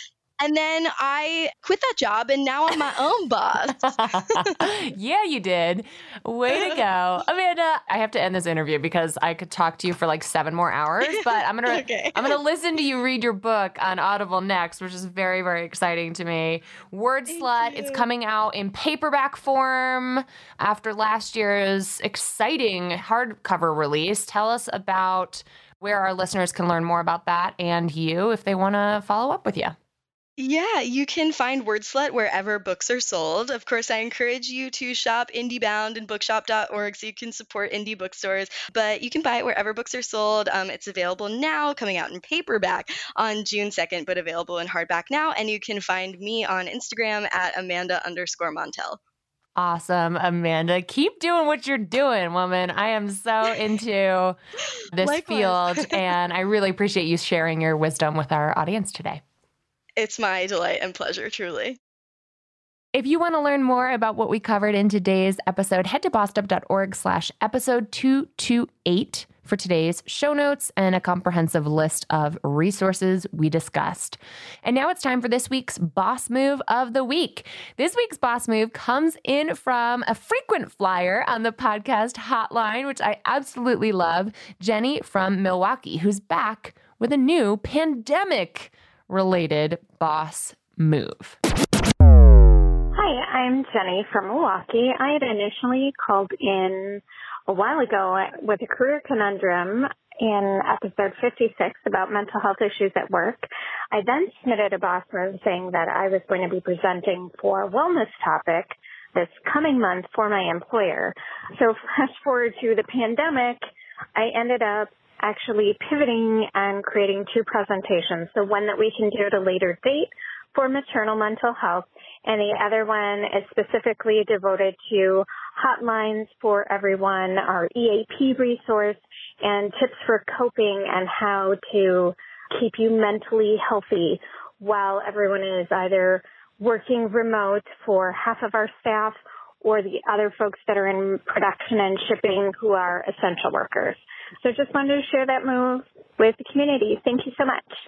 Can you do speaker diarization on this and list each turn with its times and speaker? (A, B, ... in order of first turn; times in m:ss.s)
0:00.4-0:04.6 A
0:03.8-0:29.7 B
0:06.5-0:06.8 A
0:11.0-0:12.4 A
0:17.3-0:18.1 A
0:30.4-0:49.0 A
0:49.6-0:54.4 B
0:54.9-0:59.2 B
0:55.0-0:56.0 A
1:00.0-1:01.8 A
1:02.9-1:31.4 B
1:32.9-1:53.6 C
1:54.1-2:27.7 C